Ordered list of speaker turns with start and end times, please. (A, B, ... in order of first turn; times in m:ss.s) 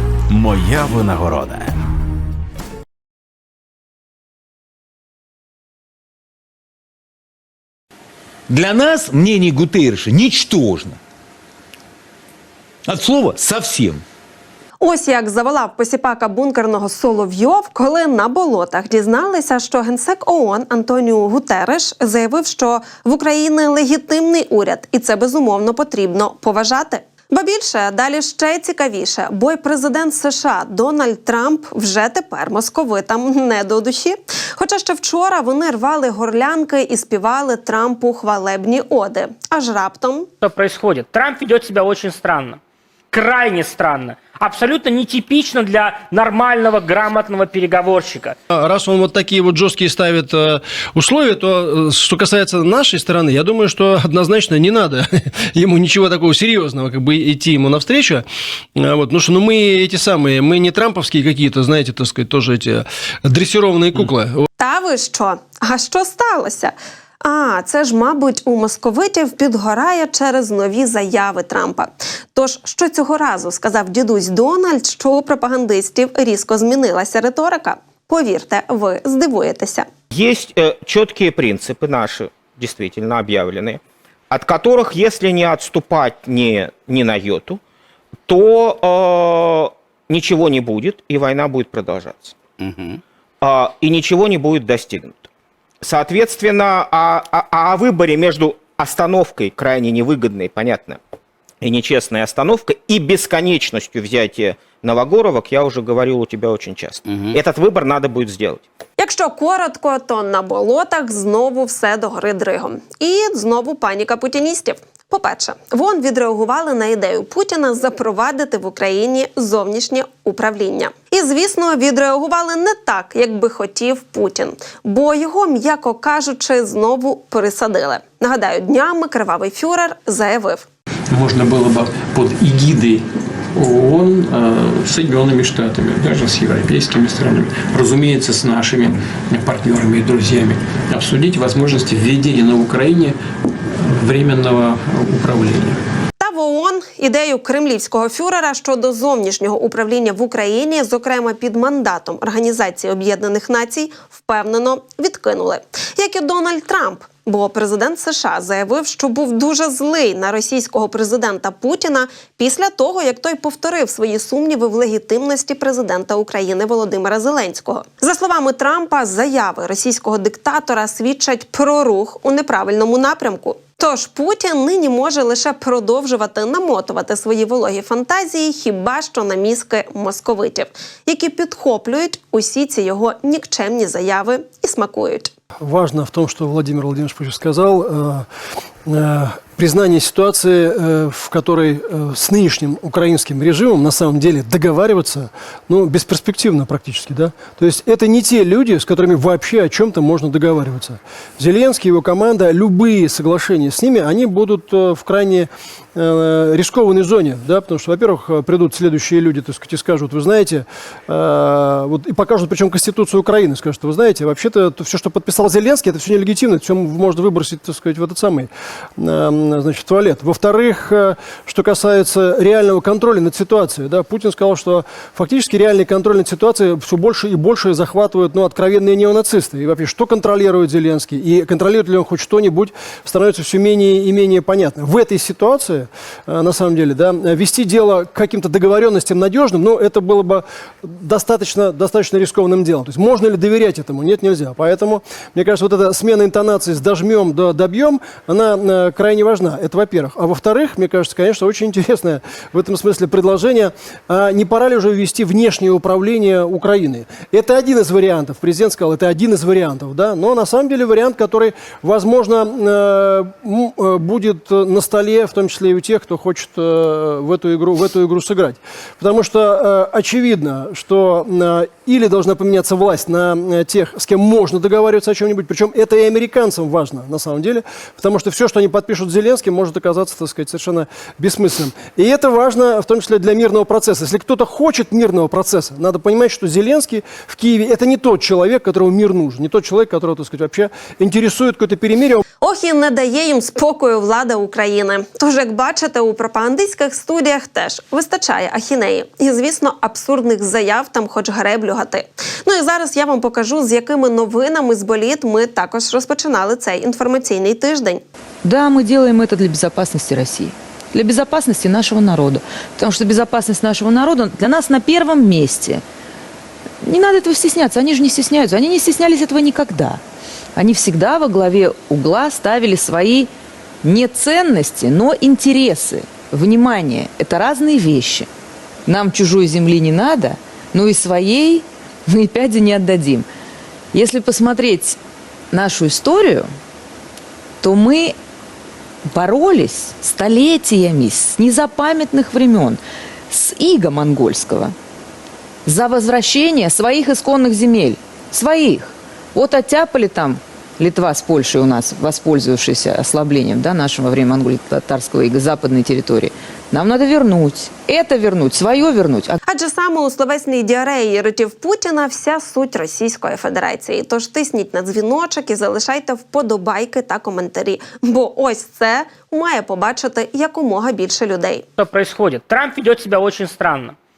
0:08.5-0:11.0 A
0:12.8-0:14.0 A
0:14.8-0:40.3 B
0:40.4-0:42.6 C
0:43.1-0:48.4 C
0:48.5-1:04.5 D
1:04.6-1:19.8 B
1:20.1-1:23.8 E
1:24.3-1:27.6 E
1:28.3-1:32.3 E
1:33.4-1:35.2 E
1:35.9-1:41.0 E
1:41.6-1:48.6 E
1:49.0-2:10.6 B
2:11.1-2:23.2 F
2:23.8-2:25.8 F
2:26.2-3:05.3 B
3:05.6-3:08.2 D
3:08.8-4:52.2 D
4:52.4-5:08.0 B
5:08.4-5:15.8 G
5:16.8-5:20.0 G
5:20.6-5:23.3 G
5:23.8-5:28.3 G
5:28.9-5:33.2 G
5:33.9-5:35.0 G
5:35.5-5:36.5 G
5:37.6-5:38.1 G
5:39.1-5:44.7 G
5:45.6-5:59.4 G
5:59.5-6:11.7 B
6:11.8-6:13.9 C